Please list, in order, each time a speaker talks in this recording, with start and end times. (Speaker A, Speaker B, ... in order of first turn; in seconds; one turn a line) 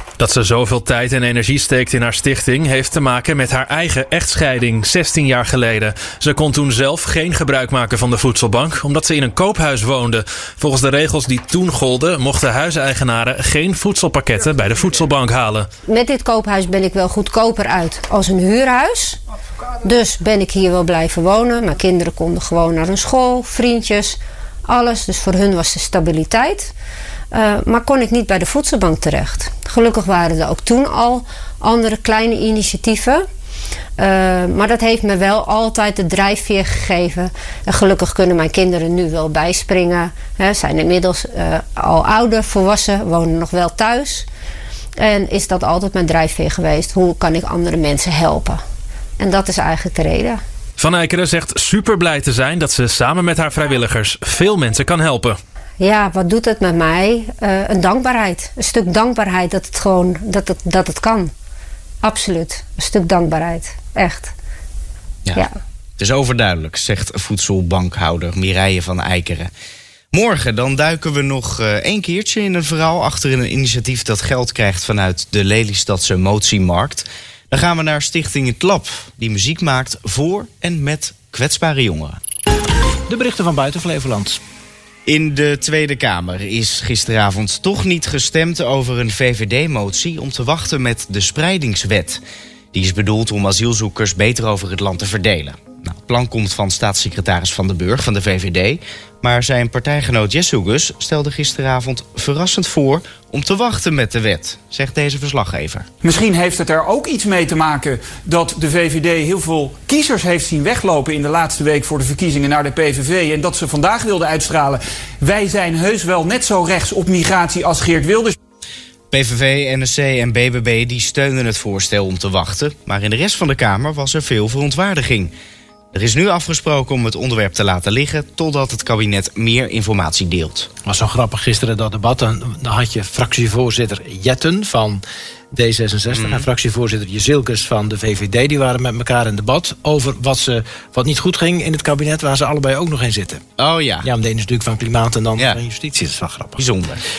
Speaker A: 0.2-15.7
Speaker B: 15.9-19.2
Speaker B: 19.8-26.7
Speaker B: 27.3-33.2
Speaker B: 34.0-44.2
Speaker B: 45.0-48.6
Speaker B: 49.2-50.4
Speaker A: 50.8-55.4
Speaker B: 55.8-61.3
Speaker B: 62.0-64.3
Speaker C: 66.0-69.5
Speaker C: 70.1-82.2
Speaker D: 83.1-84.4
Speaker C: 85.0-92.2
Speaker C: 92.7-105.8
Speaker E: 106.0-118.3
Speaker C: 119.1-125.3
Speaker C: 125.9-130.7
Speaker D: 130.8-143.4
Speaker C: 136.1-136.5
Speaker C: 143.6-144.1
Speaker D: 144.0-146.6
Speaker C: 146.6-147.0